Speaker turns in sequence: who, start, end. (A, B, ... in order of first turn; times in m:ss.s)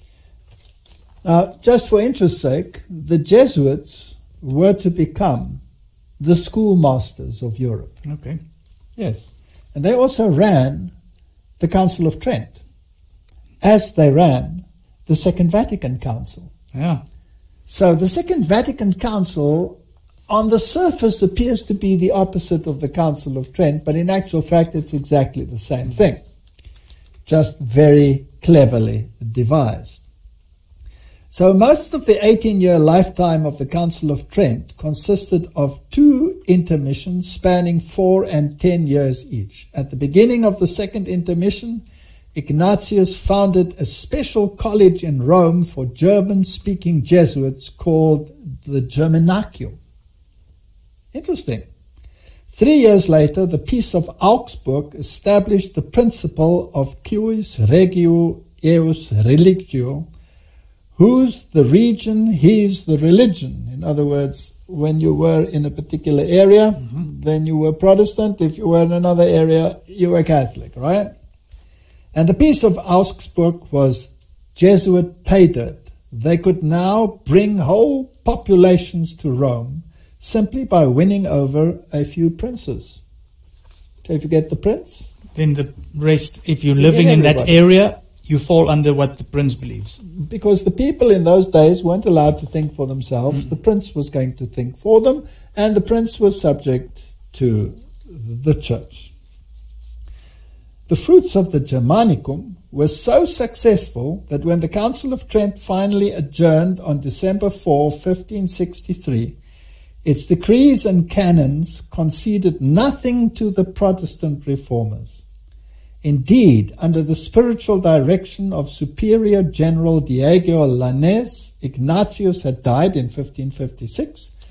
0:01.2-0:05.6 A
0:06.2-0:07.9 A
0:08.0-0:08.4 B
0:09.0-0:09.2 A
0:09.7-0:10.9 A
0:11.6-0:12.6 A
0:13.6-0:16.5 A
0:16.7-0:17.0 B
0:17.7-0:19.8 A
0:20.3-0:26.2 A
0:27.3-0:30.0 A
0:31.3-0:49.8 A
0:51.1-0:51.6 A
0:52.5-1:00.1 A
1:01.0-1:11.1 A
1:12.1-1:23.0 A
1:24.0-1:25.1 A
1:25.4-1:30.0 B
1:26.8-1:27.6 A
1:30.1-1:39.1 A
1:40.9-1:49.3 A
1:50.0-1:55.2 A
1:56.0-2:04.3 A